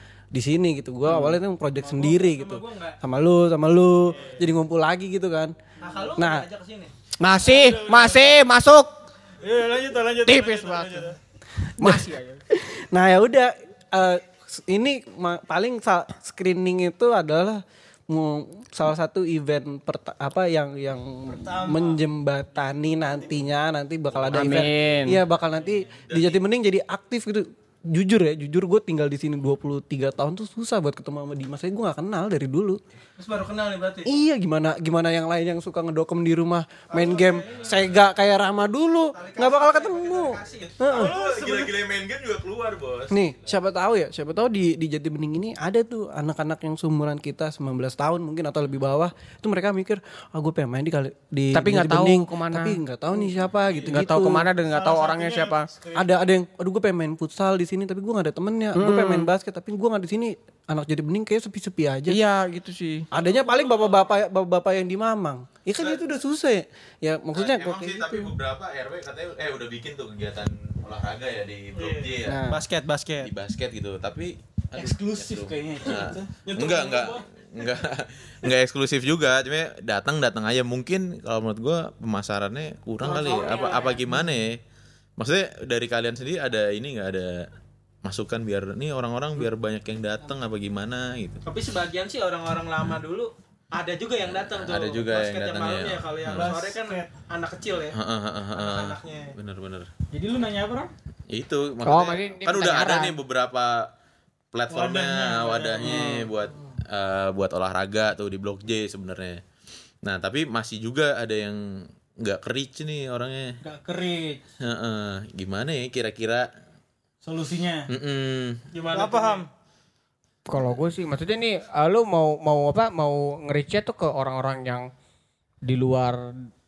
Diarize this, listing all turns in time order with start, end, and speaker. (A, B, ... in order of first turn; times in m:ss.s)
0:00.3-0:05.5 A
0:01.8-0:02.1 B
0:02.0-0:03.0 C
0:04.1-0:04.5 B
0:05.8-0:06.9 C
0:05.8-0:06.1 B
0:06.2-0:06.5 A
0:07.2-0:08.9 D
0:07.3-0:08.4 B
0:09.4-0:11.2 B
0:10.2-0:11.1 D
0:11.8-0:12.1 A
0:11.8-0:12.4 D
0:12.8-0:32.8 A
0:21.3-0:22.0 B
0:22.8-0:23.4 B
0:24.1-0:24.7 E
0:24.3-0:25.2 D
0:26.1-0:26.4 E
0:33.2-0:34.1 C
0:34.0-0:41.2 A
0:36.9-0:37.8 C
0:39.1-0:40.9 C
0:40.9-0:43.5 E
0:40.9-0:41.7 B
0:43.1-0:54.5 A
0:51.5-0:52.8 D
0:53.6-0:54.0 B
0:53.9-0:55.7 D
0:54.6-0:56.1 B
0:56.0-1:02.2 A
0:58.8-0:59.3 D
1:02.1-1:03.1 D
1:03.1-1:08.3 A
1:03.2-1:03.9 C
1:07.4-1:12.4 E
1:11.8-1:13.3 C
1:12.2-1:12.6 A
1:13.2-1:24.6 E
1:14.7-1:16.3 B
1:16.5-1:17.2 C
1:23.0-1:24.0 C
1:25.2-1:27.5 E
1:28.0-1:31.4 E
1:31.4-1:38.0 C
1:34.2-1:36.5 E
1:36.3-1:37.1 B
1:37.9-1:39.9 E
1:38.6-1:39.3 C
1:40.1-1:40.9 B
1:41.3-1:43.8 E
1:41.8-1:43.2 D
1:44.5-1:49.4 E
1:44.7-1:46.2 B
1:50.0-1:51.6 E
1:52.2-1:53.6 E
1:53.6-1:54.4 B
1:54.6-1:56.5 E
1:57.2-1:57.9 B
1:57.9-1:58.6 E
1:58.7-1:59.4 C
1:58.9-1:59.5 B
2:00.5-2:04.9 D
2:05.6-2:06.5 D